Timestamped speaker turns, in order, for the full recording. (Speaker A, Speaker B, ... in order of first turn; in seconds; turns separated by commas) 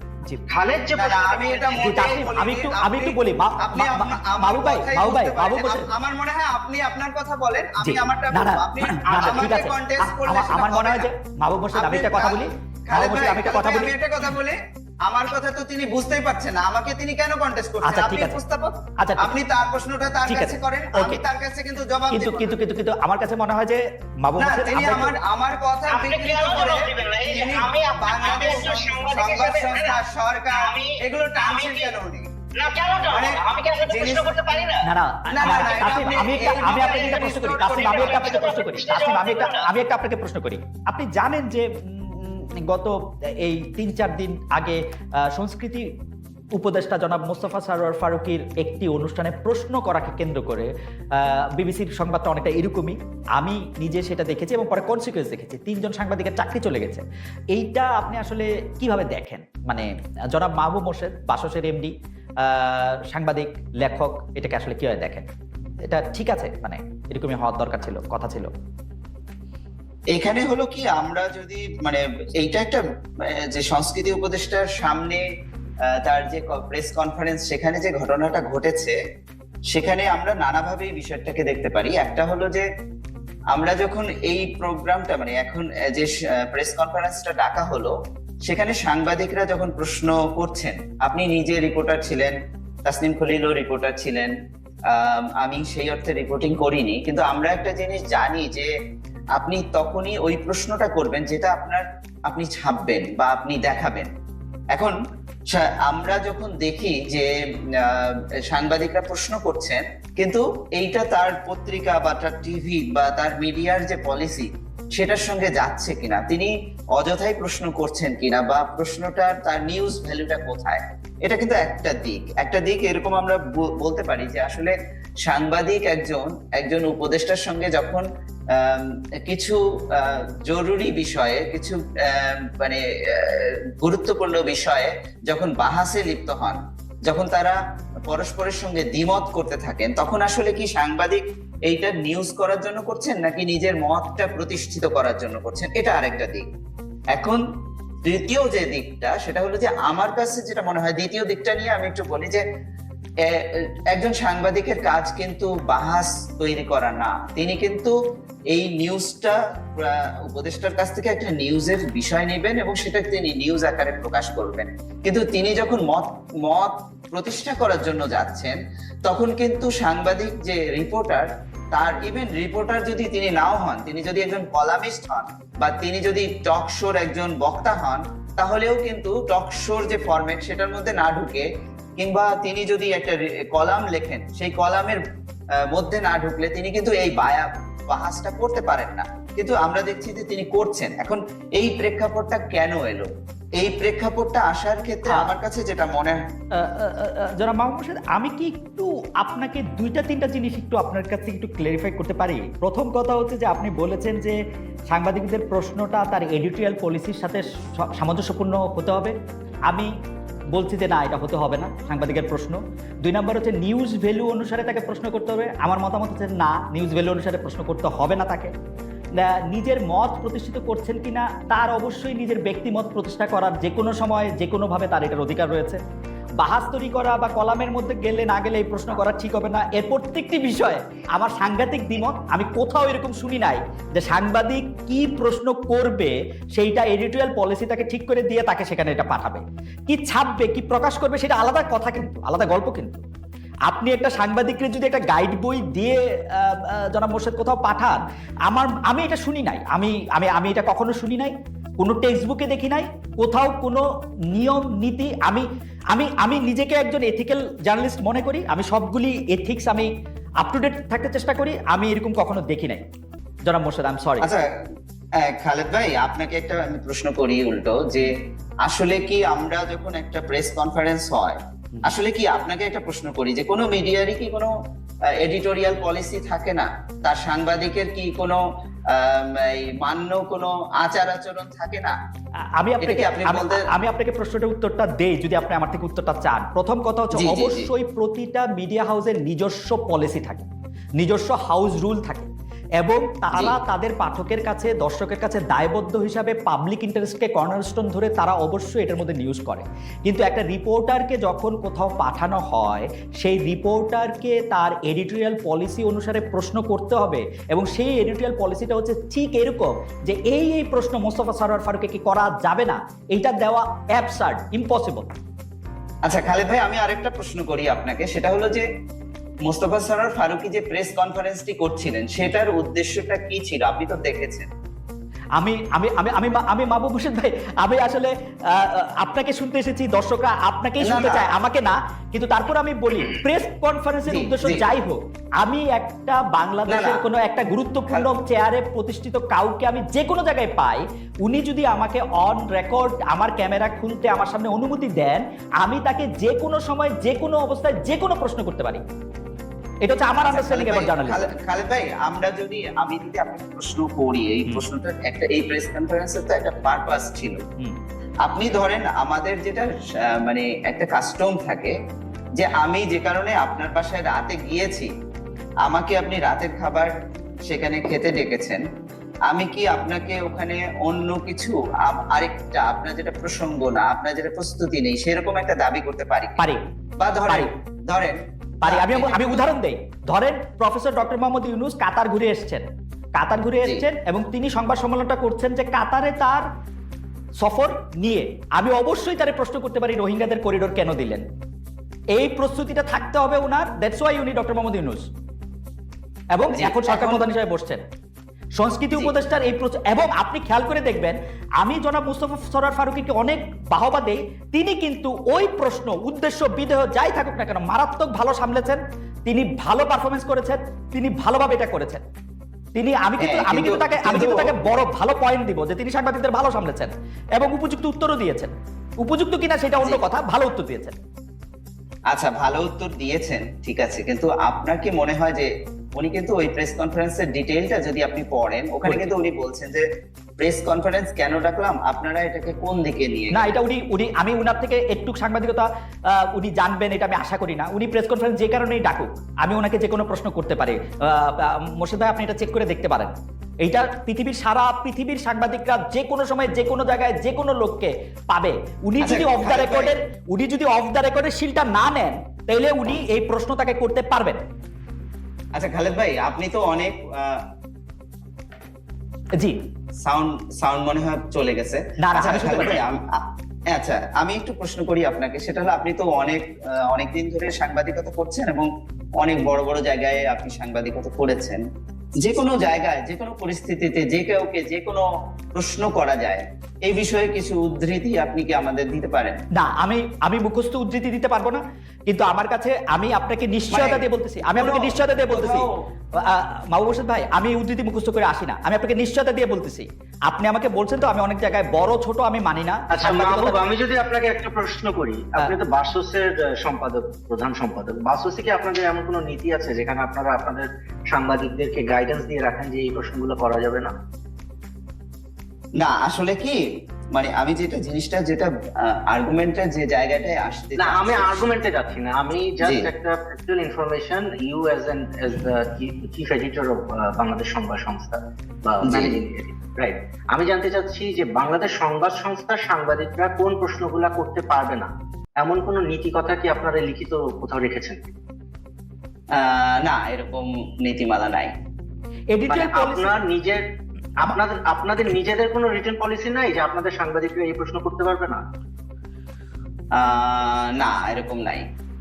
Speaker A: 0.5-1.9, Speaker B: 0.9-11.1, Speaker C: 1.8-5.9, Speaker C: 7.8-13.9, Speaker A: 9.1-9.5, Speaker B: 11.8-22.5, Speaker C: 17.8-18.4, Speaker C: 19.0-19.4, Speaker C: 20.3-21.2, Speaker C: 22.1-25.1, Speaker B: 24.4-32.3, Speaker A: 25.9-31.9, Speaker A: 32.6-34.9, Speaker B: 33.1-34.3, Speaker C: 34.8-45.9, Speaker B: 35.3-38.4, Speaker A: 35.4-39.7, Speaker C: 46.6-65.3, Speaker C: 65.8-68.5, Speaker B: 70.2-75.2, Speaker B: 76.0-79.0, Speaker B: 79.7-82.7, Speaker B: 83.5-87.9, Speaker B: 88.5-92.3, Speaker B: 92.8-94.3, Speaker B: 94.9-98.7, Speaker B: 99.4-104.1, Speaker B: 105.5-124.7, Speaker B: 125.2-146.5, Speaker B: 147.1-147.4, Speaker B: 148.1-152.4, Speaker B: 153.2-157.9, Speaker B: 158.5-181.5, Speaker B: 182.0-185.0, Speaker B: 185.7-193.1, Speaker B: 193.6-196.2, Speaker C: 195.1-195.3, Speaker C: 196.6-204.4, Speaker C: 204.9-209.2, Speaker C: 210.5-218.5, Speaker C: 219.2-225.8, Speaker C: 226.4-243.0, Speaker C: 243.7-259.9, Speaker C: 260.4-262.8, Speaker C: 263.5-264.3, Speaker B: 264.2-264.5, Speaker B: 265.2-268.1, Speaker B: 268.6-274.5, Speaker B: 275.2-282.0, Speaker C: 282.6-290.5, Speaker B: 282.8-283.6, Speaker B: 287.1-287.7, Speaker C: 291.0-292.3, Speaker C: 292.8-315.1, Speaker B: 316.1-318.6, Speaker B: 319.4-324.5, Speaker C: 325.4-348.8, Speaker B: 330.8-331.3, Speaker B: 334.1-334.7, Speaker B: 336.7-337.0, Speaker C: 349.8-351.3, Speaker B: 350.3-357.4, Speaker B: 358.2-361.8, Speaker B: 362.4-364.9, Speaker B: 365.6-366.9, Speaker B: 367.5-368.6, Speaker B: 369.3-376.4, Speaker B: 377.0-379.4, Speaker C: 378.6-382.6, Speaker C: 383.2-386.4, Speaker C: 387.4-391.2, Speaker C: 392.1-395.1, Speaker C: 396.3-397.8, Speaker B: 396.5-397.2, Speaker C: 398.6-412.0, Speaker C: 412.8-421.0, Speaker B: 413.2-414.5, Speaker B: 422.1-429.9, Speaker C: 428.9-429.1, Speaker B: 430.4-433.4, Speaker C: 433.3-454.4, Speaker B: 449.0-449.9, Speaker B: 455.6-457.4, Speaker B: 460.1-468.7, Speaker C: 462.0-462.8, Speaker B: 469.2-471.6, Speaker B: 472.2-479.4, Speaker C: 479.6-485.7, Speaker B: 483.7-485.7, Speaker C: 486.2-493.6, Speaker A: 492.9-503.9, Speaker B: 505.8-506.6, Speaker B: 507.1-511.4, Speaker A: 510.8-524.9, Speaker B: 518.9-519.2, Speaker A: 525.4-528.1, Speaker B: 529.3-531.5, Speaker C: 532.3-533.1, Speaker A: 532.5-533.6, Speaker A: 534.2-538.4, Speaker B: 540.0-541.7